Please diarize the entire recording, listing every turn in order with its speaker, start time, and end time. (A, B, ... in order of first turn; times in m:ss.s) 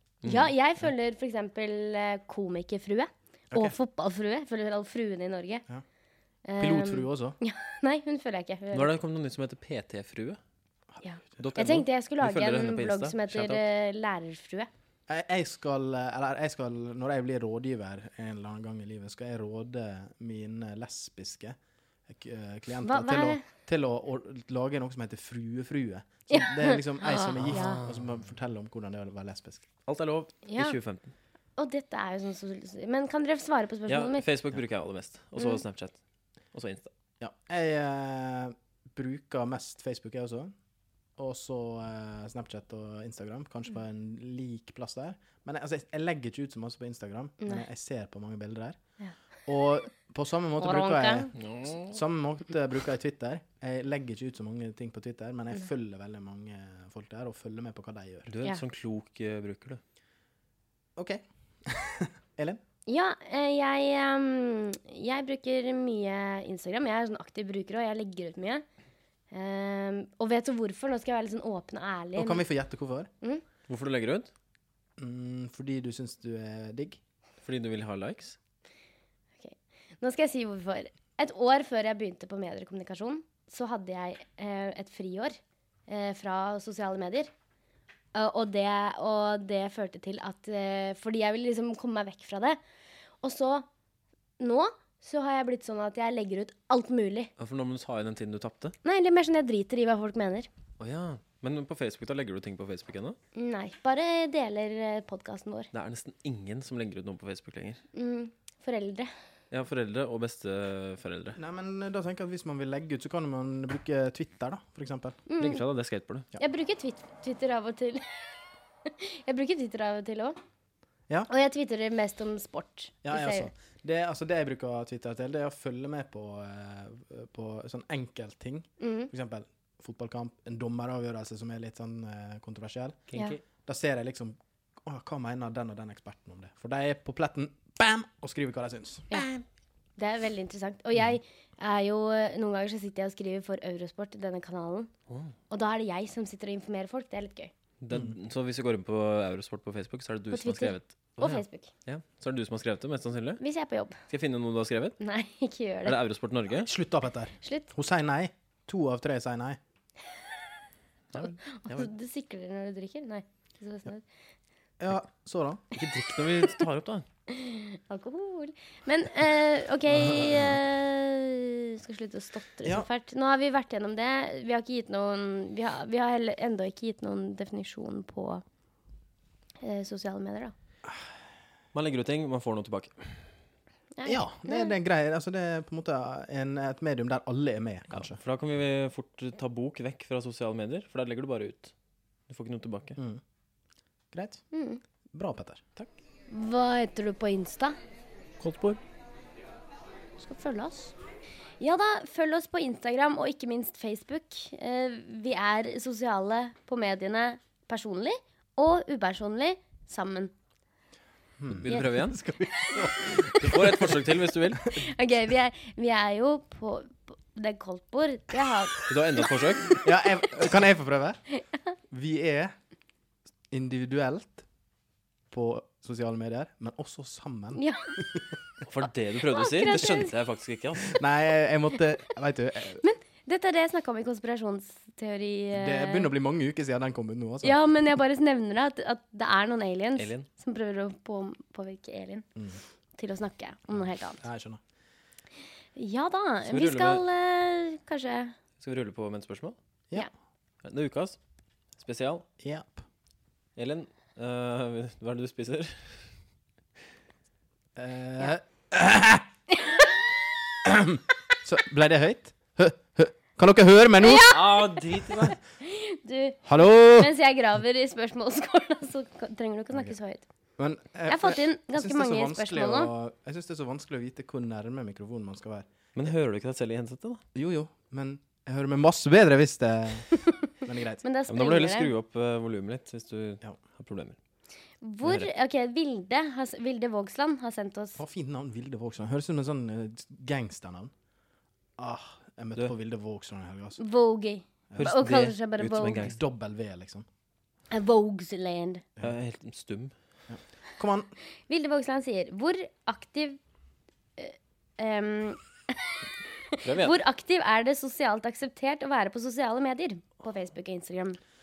0:00.2-0:00.5 A
0:00.2-0:05.6 B
0:06.4-0:08.9 B
0:06.6-0:07.4 C
0:08.7-0:10.4 A
0:11.0-0:11.5 C
0:11.0-0:14.7 B
0:11.4-0:13.6 A
0:15.1-0:21.6 C
0:22.1-0:29.7 C
0:22.8-0:23.4 B
0:26.3-0:27.8 B
0:27.5-0:28.0 A
0:29.8-0:31.1 A
0:30.5-0:30.8 B
0:31.6-0:34.3 B
0:33.9-0:36.0 A
0:35.4-0:35.6 B
0:36.5-0:36.9 A
0:37.2-0:40.5 C
0:41.2-0:48.8 C
0:49.4-0:58.3 C
0:50.6-0:51.3 B
0:51.4-0:52.0 A
0:58.3-0:59.8 A
1:01.0-1:02.6 C
1:02.9-1:08.6 B
1:09.3-1:12.4 B
1:12.2-1:13.1 C
1:13.7-1:14.3 A
1:15.0-1:17.0 C
1:17.4-1:18.4 A
1:19.4-1:25.4 B
1:25.9-1:27.3 B
1:28.1-1:32.6 B
1:33.2-1:33.7 B
1:34.4-1:37.3 B
1:37.4-1:38.8 A
1:38.8-1:40.5 B
1:40.8-1:43.2 A
1:43.4-1:45.7 B
1:45.7-1:47.8 A
1:47.9-1:49.1 B
1:49.5-1:51.4 A
1:51.4-1:55.2 C
1:55.3-1:55.6 B
1:55.4-1:56.3 A
1:56.4-1:58.3 B
1:58.9-2:00.4 B
2:01.3-2:03.5 B
2:03.0-2:19.1 C
2:08.8-2:09.1 B
2:13.1-2:13.4 A
2:19.1-2:19.4 A
2:20.0-2:24.9 B
2:25.5-2:27.5 B
2:27.8-2:33.4 A
2:30.3-2:31.7 B
2:33.4-2:34.0 B
2:34.1-2:35.0 A
2:35.0-2:36.0 B
2:35.8-2:36.7 A
2:36.6-2:39.6 C
2:37.4-2:37.7 B
2:41.1-2:41.9 A
2:41.4-2:44.1 B
2:44.8-2:45.6 C
2:45.7-2:47.1 A
2:47.3-2:58.4 B
2:50.1-2:50.4 C
2:59.6-3:00.5 B
3:01.7-3:03.2 A
3:04.0-3:04.7 B
3:04.0-3:08.2 C
3:07.9-3:11.7 A
3:12.3-3:13.0 A
3:13.0-3:13.2 C
3:14.1-3:14.4 C
3:14.5-3:14.8 B
3:15.1-3:15.6 C
3:16.3-3:17.8 B
3:18.4-3:18.8 A
3:20.2-3:21.0 B
3:21.6-3:30.3 B
3:31.4-3:34.7 C
3:31.5-3:32.2 A
3:31.7-3:31.9 B
3:33.2-3:34.8 A
3:34.7-3:39.2 B
3:38.9-3:39.7 A
3:39.8-3:41.2 C
3:41.9-3:42.5 C
3:43.5-3:44.4 C
3:45.3-3:48.3 C
3:47.6-3:47.9 B
3:48.6-3:51.0 A
3:49.3-3:50.1 B
3:50.9-3:52.8 C
3:52.8-3:56.1 B
3:55.5-3:57.6 C
3:57.4-4:02.3 B
4:00.0-4:00.3 A
4:03.0-4:04.2 B
4:04.2-4:04.6 C
4:05.8-4:08.4 B
4:06.5-4:07.0 A
4:08.6-4:09.6 A
4:10.6-4:11.2 A
4:11.8-4:12.2 A
4:12.4-4:12.8 C
4:13.6-4:16.0 A
4:17.8-4:19.3 C
4:20.6-4:24.4 C
4:24.0-4:26.4 B
4:24.3-4:25.4 A
4:26.4-4:27.1 C
4:27.0-4:30.3 B
4:30.6-4:35.7 C
4:31.1-4:32.9 B
4:36.0-4:37.2 A
4:37.4-4:41.0 C
4:41.0-4:41.9 B
4:41.3-4:44.2 A
4:44.8-4:48.0 B
4:45.0-4:45.3 A
4:48.0-4:50.9 C
4:51.8-4:53.8 C
4:53.8-4:56.1 B
4:54.7-4:55.0 C
4:54.8-4:56.2 A
4:55.9-4:57.1 C
4:57.7-4:58.8 B
4:59.0-4:59.9 A
5:00.3-5:01.1 C
5:01.5-5:03.4 B
5:04.2-5:06.0 B
5:06.5-5:11.2 B
5:06.6-5:07.0 A